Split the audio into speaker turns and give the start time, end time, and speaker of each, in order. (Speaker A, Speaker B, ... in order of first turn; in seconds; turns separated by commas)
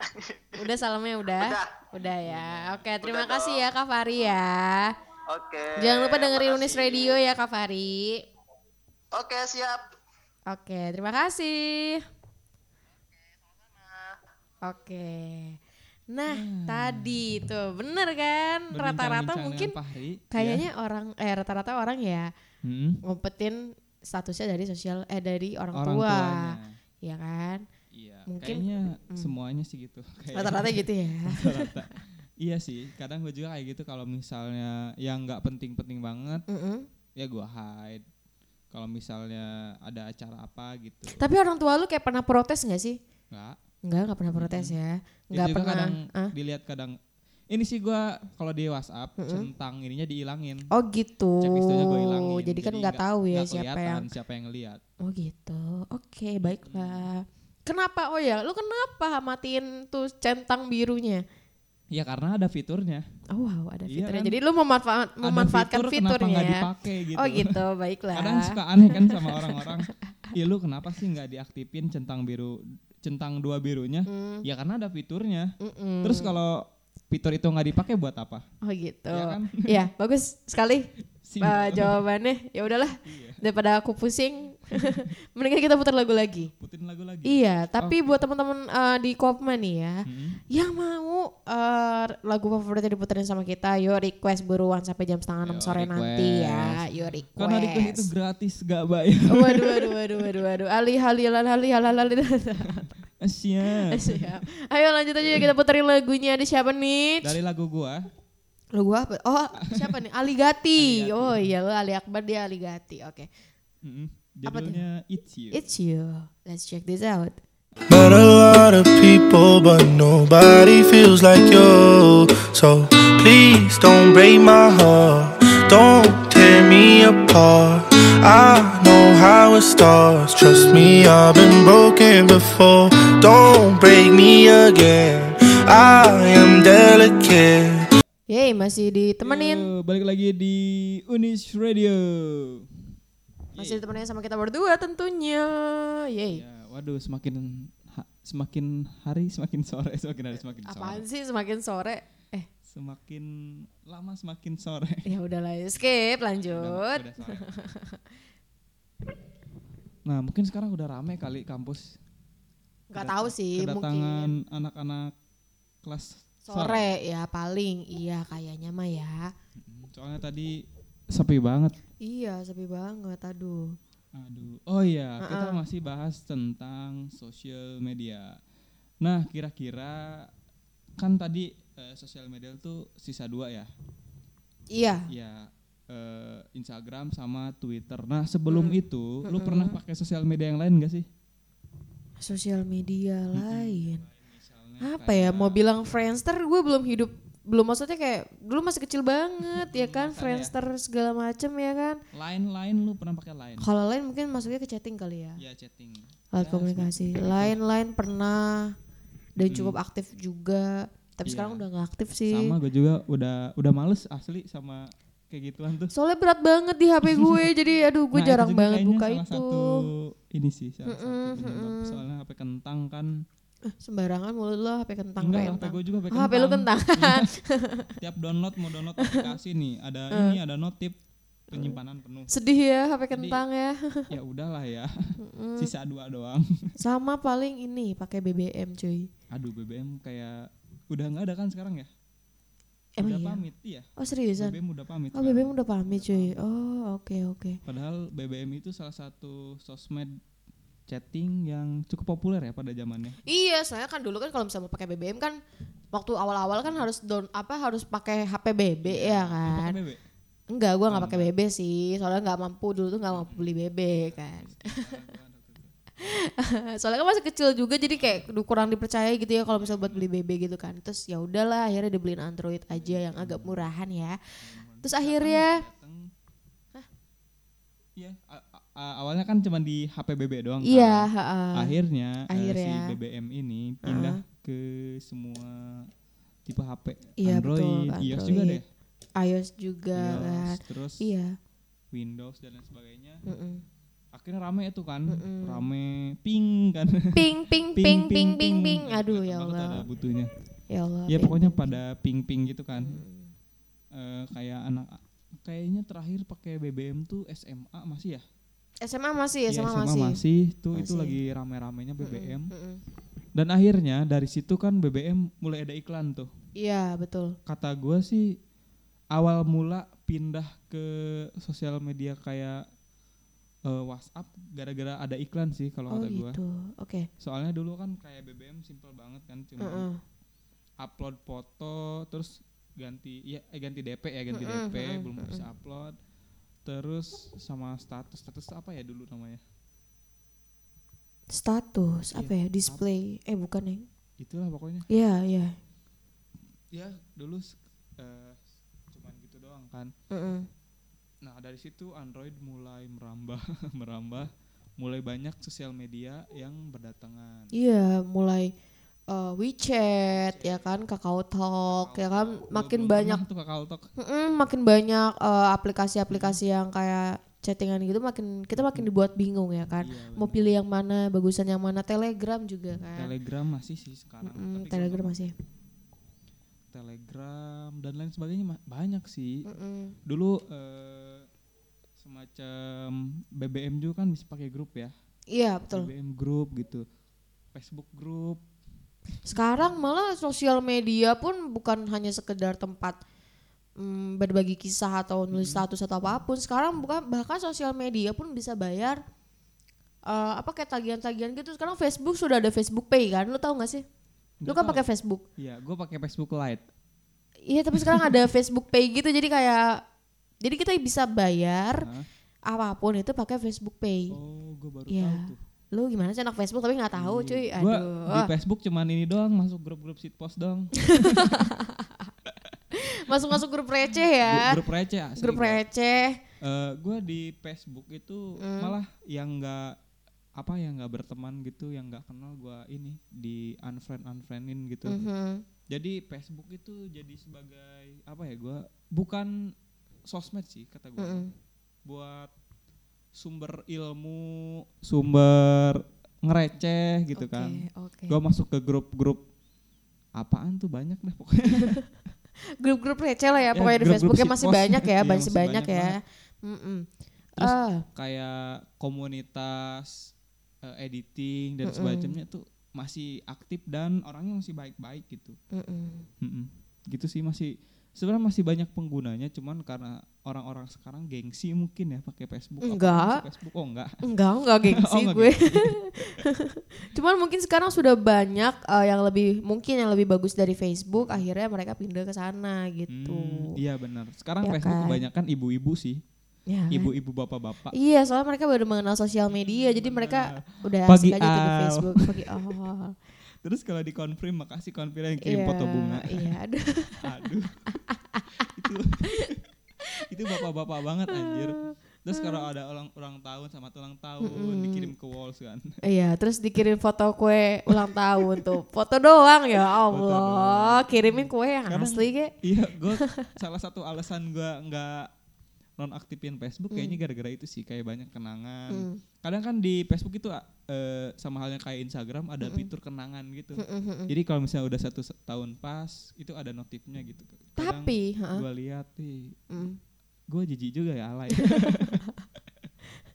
Speaker A: 0.1-0.4, Speaker B: 0.6-5.0, Speaker A: 1.4-1.7, Speaker C: 2.0-2.8, Speaker A: 3.0-3.6, Speaker A: 5.3-7.2, Speaker B: 5.8-8.2, Speaker A: 9.1-9.8, Speaker B: 10.5-12.0, Speaker A: 13.4-14.2, Speaker B: 14.6-15.6, Speaker B: 16.1-19.8, Speaker C: 16.3-17.2, Speaker C: 18.7-20.7, Speaker B: 20.3-22.3, Speaker C: 22.6-23.0, Speaker B: 23.0-27.6, Speaker C: 25.7-26.8, Speaker C: 27.9-36.4, Speaker B: 28.3-29.3, Speaker B: 30.3-31.7, Speaker B: 36.5-36.9, Speaker C: 37.2-38.0, Speaker C: 38.7-41.2, Speaker B: 41.2-43.0, Speaker C: 43.3-43.6, Speaker B: 43.9-46.3, Speaker C: 44.4-44.8, Speaker C: 45.3-47.0, Speaker C: 47.5-50.7, Speaker B: 49.2-49.5, Speaker B: 50.7-54.1, Speaker C: 51.4-54.8, Speaker B: 55.0-61.2, Speaker C: 56.5-57.1, Speaker C: 61.9-63.0, Speaker B: 63.3-69.7, Speaker C: 63.9-64.4, Speaker C: 65.2-67.6, Speaker C: 68.1-78.5, Speaker B: 74.1-74.4, Speaker B: 75.6-76.3, Speaker B: 78.6-80.9, Speaker C: 79.1-79.8, Speaker C: 81.2-82.0, Speaker B: 81.4-86.5, Speaker C: 83.0-83.4, Speaker C: 86.6-88.2, Speaker B: 87.2-98.1, Speaker C: 90.1-90.4, Speaker C: 95.4-100.3, Speaker B: 99.3-102.9, Speaker C: 102.7-104.4, Speaker B: 103.7-107.3, Speaker C: 107.2-108.1, Speaker B: 108.7-113.3, Speaker C: 109.6-109.9, Speaker C: 110.8-111.5, Speaker C: 113.8-115.6, Speaker B: 114.5-114.8, Speaker B: 115.5-117.4, Speaker D: 117.9-137.9, Speaker B: 138.3-139.7, Speaker C: 139.2-142.7, Speaker C: 143.5-143.8, Speaker B: 143.6-146.4, Speaker C: 146.3-151.1, Speaker B: 150.6-152.5, Speaker C: 152.7-155.1, Speaker B: 155.1-158.0, Speaker C: 156.5-157.5, Speaker C: 160.1-161.9, Speaker B: 162.9-164.3, Speaker C: 162.9-165.1, Speaker C: 165.8-166.9, Speaker B: 166.5-169.3, Speaker C: 169.6-170.6, Speaker C: 171.1-171.8, Speaker B: 172.0-173.8, Speaker C: 174.2-178.4, Speaker B: 175.2-175.6, Speaker C: 179.0-180.3, Speaker C: 181.0-183.7, Speaker B: 184.7-185.1, Speaker C: 185.1-191.1, Speaker B: 188.5-189.8, Speaker B: 192.2-194.0, Speaker C: 193.3-195.6, Speaker B: 194.8-202.0, Speaker C: 199.5-200.5, Speaker C: 202.1-203.7, Speaker B: 203.6-205.4, Speaker C: 205.4-207.6, Speaker B: 206.3-208.8, Speaker B: 209.4-212.5, Speaker C: 209.4-209.8, Speaker C: 211.3-211.7, Speaker C: 212.3-215.9, Speaker B: 215.9-219.8, Speaker C: 217.1-217.4, Speaker C: 218.1-223.2, Speaker B: 220.9-222.0, Speaker B: 223.7-227.9, Speaker C: 225.2-227.3, Speaker C: 228.0-231.0, Speaker B: 229.0-229.3, Speaker B: 230.1-230.4, Speaker C: 231.5-232.3, Speaker B: 231.5-231.8, Speaker B: 232.3-234.1, Speaker C: 233.1-233.4, Speaker C: 234.1-236.5, Speaker B: 235.2-235.7, Speaker B: 236.8-239.1, Speaker C: 239.3-241.9, Speaker B: 243.0-243.4, Speaker C: 243.0-246.4, Speaker B: 244.0-244.6, Speaker B: 245.1-247.6, Speaker C: 247.7-250.2, Speaker C: 250.9-253.2, Speaker B: 253.3-255.4, Speaker B: 255.9-259.8, Speaker C: 258.9-260.0, Speaker B: 260.5-264.9, Speaker C: 260.9-261.3, Speaker C: 263.1-265.7, Speaker B: 266.0-274.2, Speaker C: 269.6-270.1, Speaker C: 272.7-273.7, Speaker C: 274.4-276.1, Speaker B: 274.8-275.6, Speaker C: 278.0-285.9, Speaker B: 280.6-281.7, Speaker B: 282.3-282.9, Speaker B: 283.8-284.2, Speaker C: 286.5-288.6, Speaker B: 287.2-288.6, Speaker B: 289.2-291.3, Speaker C: 289.9-291.1, Speaker C: 291.9-293.2, Speaker B: 293.3-293.6, Speaker C: 294.1-300.3, Speaker B: 295.1-295.7, Speaker B: 297.1-299.9, Speaker B: 300.7-301.8, Speaker C: 301.1-303.0, Speaker B: 302.8-303.3, Speaker C: 303.9-308.2, Speaker B: 308.8-310.2, Speaker C: 309.5-312.5, Speaker B: 310.8-311.2, Speaker B: 312.0-312.8, Speaker C: 313.4-316.3, Speaker B: 316.6-317.4, Speaker C: 317.5-318.3, Speaker C: 319.1-320.9, Speaker C: 321.4-322.6, Speaker C: 323.7-326.4, Speaker B: 325.9-327.1, Speaker C: 327.2-329.9, Speaker B: 329.6-330.0, Speaker C: 330.8-335.9, Speaker B: 334.3-335.4, Speaker C: 336.6-339.4, Speaker B: 341.3-343.9, Speaker C: 342.1-342.8, Speaker C: 344.2-344.9, Speaker B: 344.9-345.6, Speaker C: 346.7-348.4, Speaker C: 348.9-349.9, Speaker B: 350.1-350.5, Speaker C: 351.2-357.5, Speaker B: 357.5-358.5, Speaker B: 359.1-363.2, Speaker C: 360.1-360.8, Speaker C: 361.7-363.9, Speaker B: 364.0-373.1, Speaker C: 366.1-366.4, Speaker C: 368.6-368.9, Speaker C: 369.8-370.5, Speaker C: 373.0-375.1, Speaker B: 374.2-375.3, Speaker C: 376.7-379.5, Speaker B: 379.5-380.0, Speaker C: 380.1-381.3, Speaker C: 382.0-384.9, Speaker B: 385.3-385.9, Speaker C: 385.7-386.8, Speaker C: 387.5-388.4, Speaker B: 389.2-393.0, Speaker B: 393.8-399.0, Speaker C: 395.3-395.6, Speaker B: 400.1-403.9, Speaker C: 404.4-404.9, Speaker B: 404.5-405.2, Speaker C: 405.4-406.6, Speaker B: 407.5-409.8, Speaker B: 410.4-411.9, Speaker C: 411.8-412.1, Speaker B: 412.5-414.1, Speaker C: 414.1-415.4, Speaker B: 414.9-418.3, Speaker C: 416.9-421.5, Speaker B: 420.9-422.1, Speaker B: 422.7-424.6, Speaker C: 424.2-425.6, Speaker B: 425.2-426.2, Speaker C: 426.4-429.8, Speaker B: 428.4-428.7, Speaker C: 430.4-435.0, Speaker B: 434.9-435.4, Speaker C: 435.7-439.3, Speaker C: 440.1-441.2, Speaker B: 441.0-441.3, Speaker C: 441.9-442.3, Speaker C: 443.1-449.2, Speaker B: 447.2-448.2, Speaker C: 450.2-451.8, Speaker B: 452.6-456.9, Speaker C: 453.5-456.0, Speaker B: 457.4-457.8, Speaker C: 457.4-460.1, Speaker C: 460.6-465.4, Speaker B: 461.6-462.1, Speaker B: 465.5-466.1, Speaker C: 466.2-474.0, Speaker B: 472.6-473.2, Speaker B: 474.0-483.5, Speaker C: 474.6-475.8, Speaker C: 480.9-481.2, Speaker C: 482.9-486.0, Speaker B: 484.4-485.0, Speaker B: 486.5-486.9, Speaker C: 486.7-487.7, Speaker B: 487.7-492.9, Speaker C: 489.3-492.5, Speaker C: 493.4-496.4, Speaker B: 495.2-497.1, Speaker C: 497.0-497.6, Speaker B: 497.7-498.2, Speaker C: 498.5-499.4, Speaker C: 500.1-505.7, Speaker B: 501.1-501.5, Speaker B: 502.1-502.4, Speaker B: 504.2-504.9, Speaker B: 505.8-512.3, Speaker C: 508.2-508.5, Speaker C: 509.9-515.1, Speaker B: 513.0-513.3, Speaker C: 515.8-529.3, Speaker B: 516.7-517.0, Speaker B: 518.7-519.0, Speaker B: 522.4-522.7, Speaker B: 523.6-524.1, Speaker B: 527.6-528.4, Speaker B: 529.5-529.8, Speaker C: 530.3-532.0, Speaker B: 531.4-531.9